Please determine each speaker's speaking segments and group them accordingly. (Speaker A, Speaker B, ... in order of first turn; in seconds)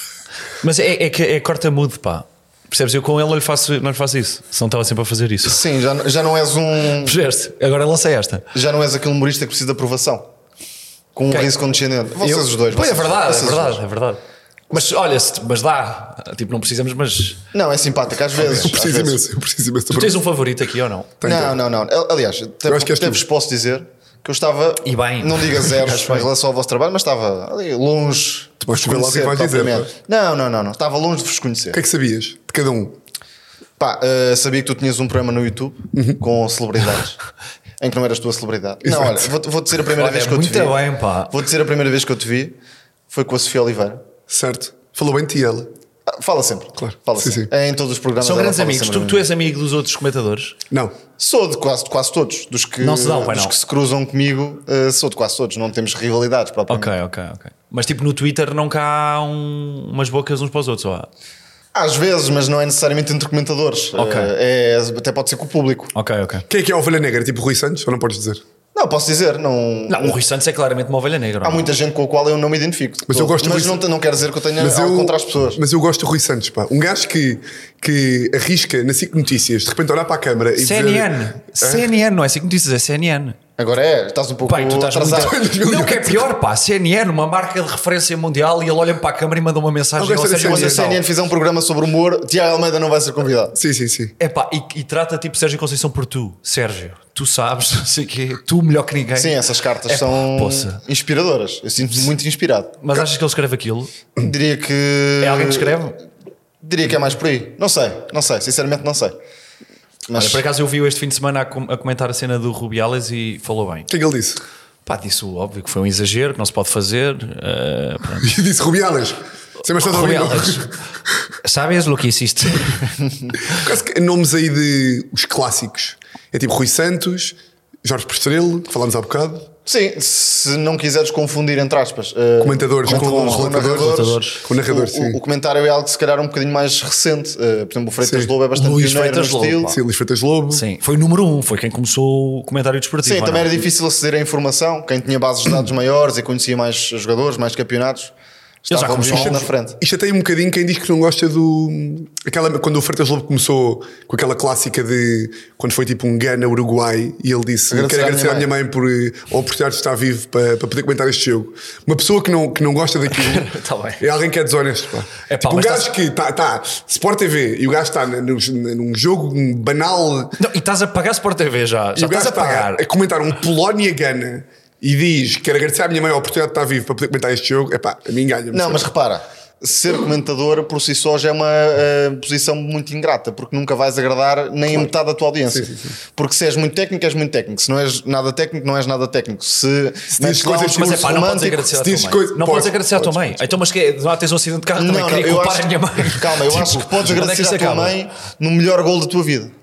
Speaker A: 0.6-5.6, 7.0-8.4, 12.2-14.2, 14.7-17.4, 19.9-21.1, 24.8-26.3, 39.9-41.4, 48.2-50.5, 52.8-53.5, 56.7-61.1, 63.9-64.3, 65.9-66.4, 69.9-71.7, 80.6-83.4, 84.5-91.0, 94.2-100.8, 102.8-103.9, 105.2-106.0, 110.1-113.9, 114.8-118.3, 119.7-120.8, 121.4-123.0, 132.8-134.4, 138.5-139.8, 140.5-143.6, 148.7-149.4, 163.1-164.0, 165.3-165.9, 170.4-172.8, 190.6-198.0
Speaker B: 5.4-7.1, 8.5-10.3, 11.2-13.8, 17.5-19.2, 21.2-31.8, 33.8-37.2, 37.8-42.5, 43.1-44.0, 46.1-49.2, 51.2-56.9, 61.7-65.9, 68.7-70.2, 71.4-75.6, 83.6-85.3, 90.4-93.5, 99.2-102.8, 104.2-105.8, 106.6-109.1, 110.1-110.4, 129.7-139.8, 143.0-148.1, 148.6-149.8, 157.7-158.5, 178.5-191.6, 194.8-199.5
Speaker C: 18.4-20.2, 21.2-21.6, 22.6-23.2, 28.6-29.9, 31.7-33.0, 35.9-36.2, 38.8-39.3, 44.3-45.7, 46.8-47.5, 50.7-51.0, 66.5-68.4, 73.1-73.8, 74.6-81.9, 85.1-86.3, 90.0-90.8, 93.5-94.1, 113.9-114.4, 118.2-120.7, 123.5-129.5, 132.4-135.2, 138.0-138.3, 139.7-140.6, 149.1-163.5, 164.0-170.4, 171.9-178.9, 185.5-185.9, 190.1-191.2, 191.7-193.5